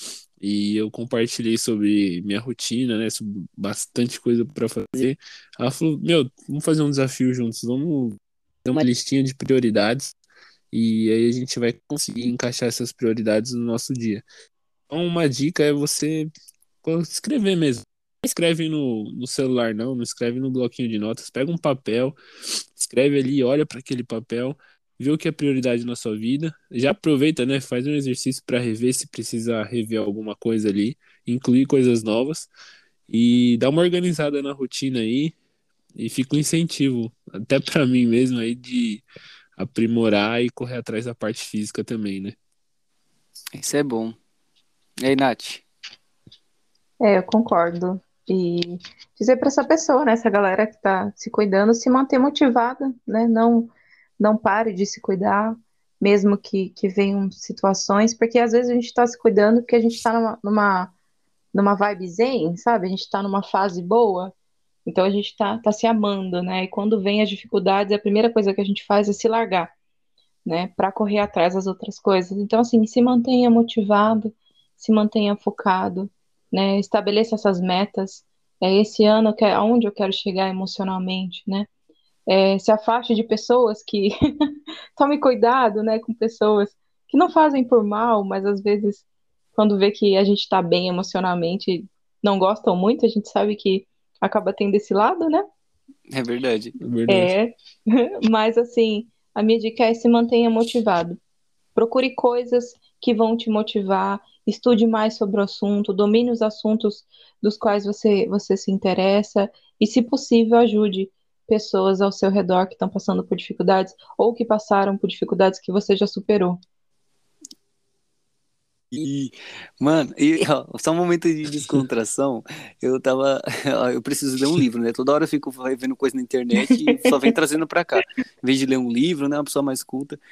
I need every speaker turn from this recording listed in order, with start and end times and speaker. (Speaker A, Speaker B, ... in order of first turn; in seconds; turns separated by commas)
Speaker A: 0.4-10.1, Speaker A: 10.7-14.2, Speaker A: 14.9-16.3, Speaker A: 16.8-32.5, Speaker A: 33.1-35.3, Speaker A: 35.9-39.0, Speaker A: 39.6-42.4, Speaker B: 43.5-44.1, Speaker B: 45.0-45.6, Speaker C: 47.0-60.9, Speaker C: 61.5-64.3, Speaker C: 64.8-69.7, Speaker C: 70.4-81.7, Speaker C: 82.3-84.1, Speaker C: 85.0-89.0, Speaker C: 89.5-95.4, Speaker B: 96.1-96.7, Speaker A: 96.8-97.3, Speaker C: 97.1-101.2, Speaker C: 101.7-116.6, Speaker B: 118.9-130.2, Speaker C: 127.0-127.3